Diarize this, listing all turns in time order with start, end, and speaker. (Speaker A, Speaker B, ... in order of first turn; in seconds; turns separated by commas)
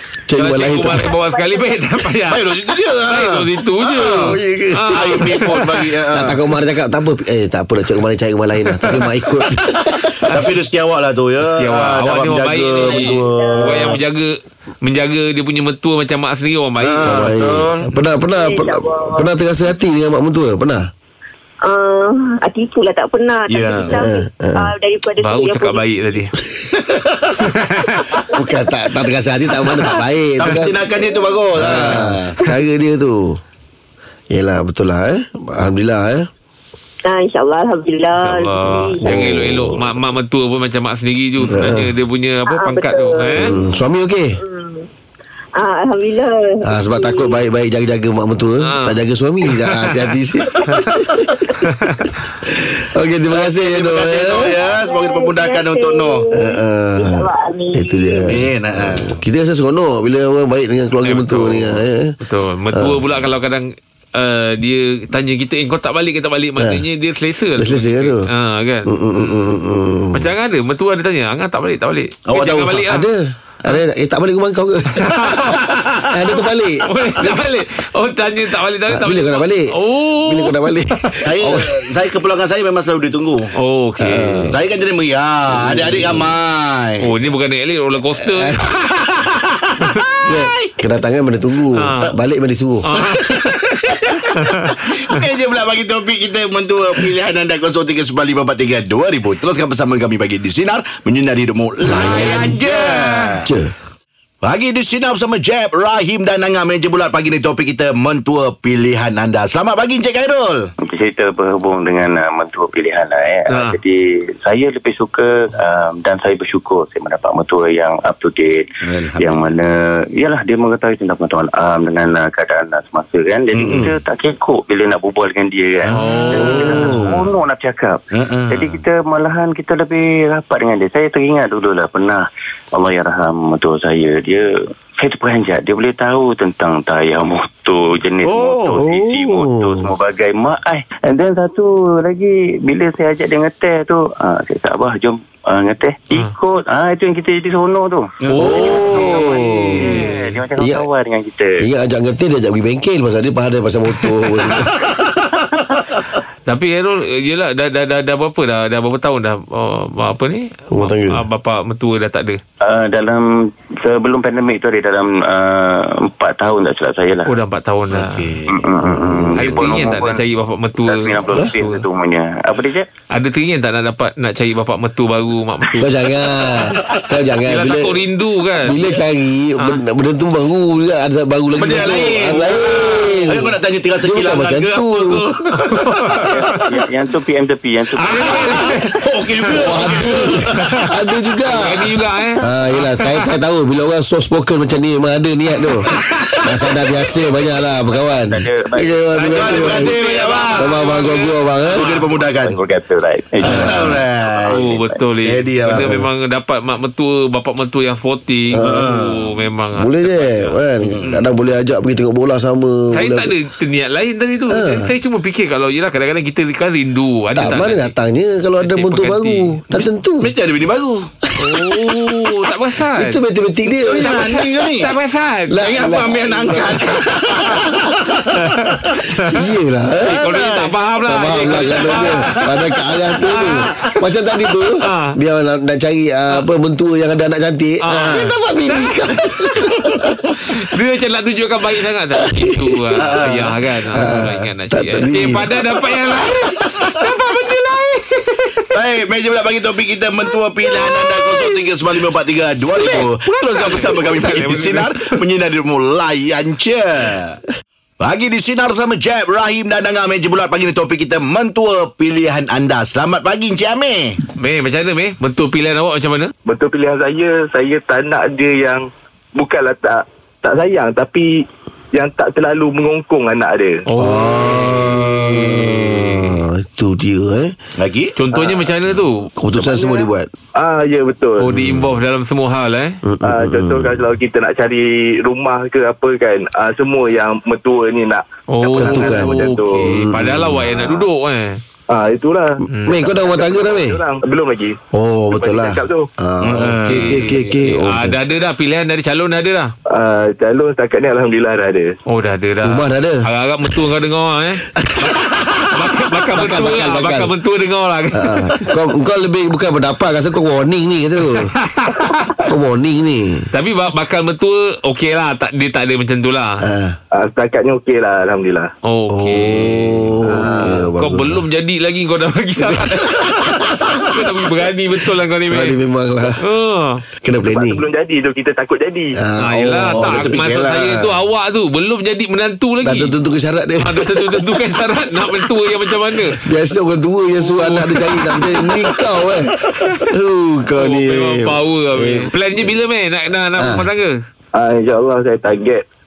Speaker A: 0.3-1.1, Speaker B: 0.4-2.4, Speaker C: 1.2-1.8, Speaker D: 2.2-4.4, Speaker B: 3.0-5.9, Speaker A: 4.1-5.2, Speaker D: 4.9-6.3, Speaker A: 6.1-10.1, Speaker B: 8.8-9.1, Speaker D: 10.3-13.9, Speaker B: 11.6-17.3, Speaker C: 12.8-14.0, Speaker D: 16.8-17.9, Speaker A: 17.0-20.9, Speaker C: 18.3-19.3, Speaker C: 21.6-25.9, Speaker D: 23.5-23.9, Speaker A: 23.9-24.7, Speaker B: 25.2-26.3, Speaker D: 26.8-28.2, Speaker A: 28.3-30.7, Speaker D: 29.8-32.3, Speaker C: 30.9-31.4, Speaker A: 31.6-33.4, Speaker A: 34.3-36.3, Speaker C: 37.1-39.0, Speaker B: 38.2-43.5, Speaker A: 39.0-40.0, Speaker A: 41.5-41.9, Speaker C: 42.5-43.5, Speaker A: 43.3-44.3, Speaker C: 44.4-44.9, Speaker C: 45.6-47.4, Speaker A: 46.7-50.6, Speaker B: 48.6-49.0, Speaker B: 49.6-49.8, Speaker C: 50.5-51.5, Speaker B: 51.7-52.1, Speaker A: 52.5-54.5, Speaker D: 53.3-56.2, Speaker C: 54.5-58.4, Speaker A: 56.3-62.1, Speaker D: 58.3-59.2, Speaker B: 61.0-69.4, Speaker A: 62.7-63.0, Speaker A: 66.6-66.8, Speaker A: 67.5-68.2, Speaker A: 68.9-70.3, Speaker B: 70.1-73.1, Speaker D: 72.3-72.8, Speaker A: 72.9-75.1, Speaker B: 74.9-75.7, Speaker D: 75.5-76.1, Speaker A: 76.1-76.8, Speaker B: 76.8-81.1, Speaker A: 78.9-79.7, Speaker A: 80.2-81.7, Speaker D: 81.2-83.5, Speaker B: 83.6-84.4, Speaker A: 84.0-84.5, Speaker D: 84.3-87.1, Speaker A: 85.6-86.3, Speaker B: 87.0-88.5, Speaker A: 88.2-88.6, Speaker D: 88.7-90.7, Speaker B: 89.8-90.1, Speaker A: 90.2-92.9, Speaker B: 91.8-92.1, Speaker B: 92.8-93.3, Speaker D: 92.9-103.5, Speaker B: 94.4-94.8, Speaker A: 101.8-102.6, Speaker B: 102.0-103.4, Speaker A: 103.4-103.7, Speaker D: 104.4-110.7, Speaker E: 110.8-151.6, Speaker B: 113.5-113.8, Speaker D: 118.8-119.5, Speaker D: 123.5-123.9, Speaker D: 125.8-127.2, Speaker B: 125.9-126.9, Speaker A: 126.3-127.3, Speaker D: 128.1-128.8, Speaker D: 138.2-138.8, Speaker A: 138.8-139.9, Speaker D: 148.2-148.5, Speaker B: 148.3-150.4, Speaker A: 148.4-149.9, Speaker A: 150.6-150.9, Speaker A: 151.6-154.7, Speaker D: 154.8-155.2, Speaker B: 156.4-162.4, Speaker A: 160.7-161.2, Speaker E: 162.6-167.3, Speaker B: 167.2-168.4, Speaker D: 167.9-168.6, Speaker E: 168.5-170.2, Speaker A: 168.8-169.6, Speaker B: 169.4-171.8, Speaker E: 170.8-172.9, Speaker B: 173.1-176.6, Speaker A: 175.8-178.0, Speaker B: 177.4-178.7, Speaker A: 178.6-185.2, Speaker D: 181.5-186.6, Speaker B: 183.0-183.4, Speaker B: 185.7-186.7, Speaker E: 186.2-188.8, Speaker D: 187.9-190.9, Speaker B: 188.0-191.0, Speaker A: 189.5-195.9, Speaker B: 191.5-193.1, Speaker D: 196.0-196.4, Speaker A: 196.4-200.0, Speaker E: 197.7-201.0, Speaker B: 199.2-201.3, Speaker D: 199.3-200.8, Speaker A: 200.6-201.9, Speaker D: 201.7-202.6, Speaker E: 201.8-205.1, Speaker D: 203.4-206.0, Speaker A: 203.5-204.0, Speaker B: 204.5-211.1, Speaker A: 205.7-206.0, Speaker A: 208.5-208.9, Speaker D: 208.6-209.3, Speaker A: 209.8-213.3, Speaker D: 210.8-211.2, Speaker B: 212.9-217.9, Speaker A: 214.5-214.9, Speaker A: 217.3-220.3, Speaker B: 218.6-219.9, Speaker D: 220.2-221.1, Speaker B: 221.4-223.2, Speaker A: 221.4-222.3, Speaker A: 222.9-224.2, Speaker D: 223.7-224.9, Speaker B: 223.9-225.6, Speaker A: 225.5-226.9, Speaker D: 225.6-228.7, Speaker B: 228.4-229.3, Speaker A: 229.3-230.2, Speaker D: 230.0-230.7, Speaker B: 230.0-232.2, Speaker A: 231.1-240.1, Speaker D: 231.3-233.9, Speaker B: 233.2-233.7, Speaker B: 234.8-235.1, Speaker B: 237.8-238.9, Speaker B: 240.5-248.6, Speaker A: 242.2-242.6, Speaker D: 243.0-243.6, Speaker A: 243.9-245.5, Speaker D: 248.7-257.4, Speaker B: 250.7-251.5, Speaker B: 252.7-254.9, Speaker D: 258.0-264.2, Speaker B: 264.4-266.3, Speaker F: 266.4-273.8, Speaker B: 273.9-276.4, Speaker A: 274.0-277.6, Speaker D: 277.8-278.2, Speaker B: 278.1-279.3, Speaker F: 278.3-278.7, Speaker A: 279.3-280.3, Speaker F: 279.5-281.5, Speaker B: 281.4-283.0, Speaker A: 281.5-281.9, Speaker A: 283.0-284.0, Speaker F: 283.2-290.0, Speaker B: 288.5-291.6, Speaker A: 288.7-290.8, Speaker F: 290.7-291.0, Speaker F: 291.9-294.8, Speaker B: 292.7-293.0, Speaker A: 292.7-294.0, Speaker A: 294.9-298.2, Speaker F: 295.3-296.1, Speaker D: 296.4-297.3, Speaker B: 296.9-299.7, Speaker F: 299.9-301.9, Speaker B: 302.1-308.7, Speaker A: 302.6-303.2, Speaker A: 304.8-305.1, Speaker A: 306.3-307.3, Speaker A: 308.1-311.5, Speaker B: 311.6-312.4, Speaker A: 312.4-313.5, Speaker B: 313.5-316.6, Speaker A: 316.6-317.0, Speaker F: 317.1-318.7, Speaker B: 318.8-325.7, Speaker A: 319.1-321.4, Speaker F: 320.3-320.8, Speaker A: 325.5-326.4, Speaker B: 326.4-327.0, Speaker A: 327.2-327.8, Speaker F: 327.3-329.2, Speaker A: 329.2-330.5, Speaker B: 329.4-333.1, Speaker D: 329.9-331.1, Speaker A: 332.8-334.7, Speaker B: 333.8-336.4, Speaker A: 336.1-342.7, Speaker B: 337.4-339.3, Speaker B: 340.8-344.1, Speaker A: 343.6-343.9, Speaker F: 344.5-345.8